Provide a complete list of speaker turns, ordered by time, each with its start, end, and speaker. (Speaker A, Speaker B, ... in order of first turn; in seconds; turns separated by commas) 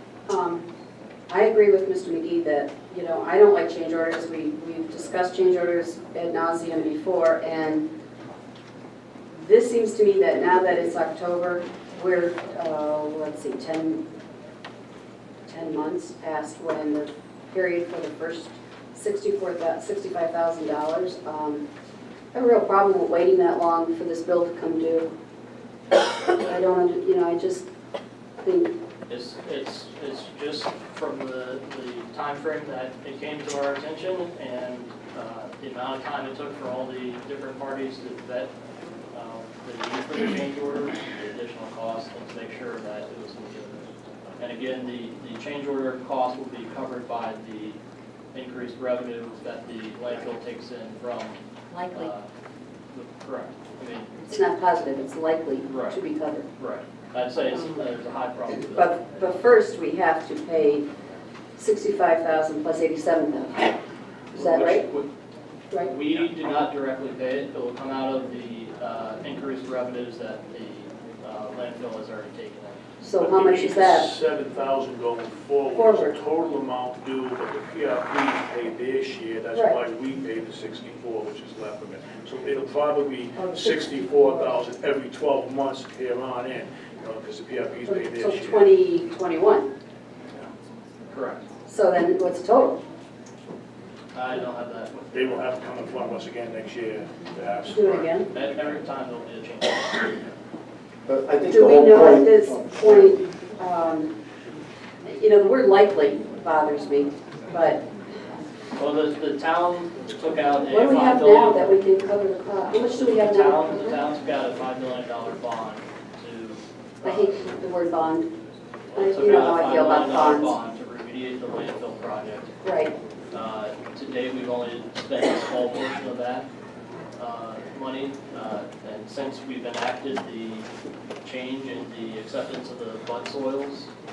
Speaker A: 0.3-0.7, Speaker A: 1.3-7.8, Speaker A: 9.3-14.0, Speaker A: 15.5-21.6, Speaker A: 22.3-25.1, Speaker A: 26.4-27.6, Speaker A: 28.4-28.7, Speaker B: 29.1-38.5, Speaker B: 39.1-47.8, Speaker B: 48.3-52.3, Speaker B: 52.9-54.1, Speaker A: 54.3-56.5, Speaker B: 55.6-56.0, Speaker B: 56.6-59.3, Speaker A: 58.7-60.9, Speaker A: 61.5-63.7, Speaker A: 64.3-64.9, Speaker B: 64.3-65.0, Speaker B: 65.8-72.8, Speaker A: 73.0-74.1, Speaker C: 73.2-88.7, Speaker A: 75.7-76.2, Speaker A: 83.4-84.5, Speaker A: 87.8-89.7, Speaker B: 91.1-91.5, Speaker A: 91.7-92.8, Speaker B: 94.1-95.5, Speaker C: 95.1-98.1, Speaker A: 97.7-98.3, Speaker B: 98.3-100.2, Speaker D: 101.0-103.2, Speaker A: 101.5-104.1, Speaker A: 105.0-107.8, Speaker B: 108.8-111.6, Speaker A: 110.7-114.0, Speaker B: 112.8-117.4, Speaker A: 117.0-118.3, Speaker B: 118.9-122.5, Speaker A: 118.9-120.5, Speaker A: 122.6-122.9, Speaker B: 123.3-126.5, Speaker B: 127.2-130.7, Speaker B: 131.2-133.9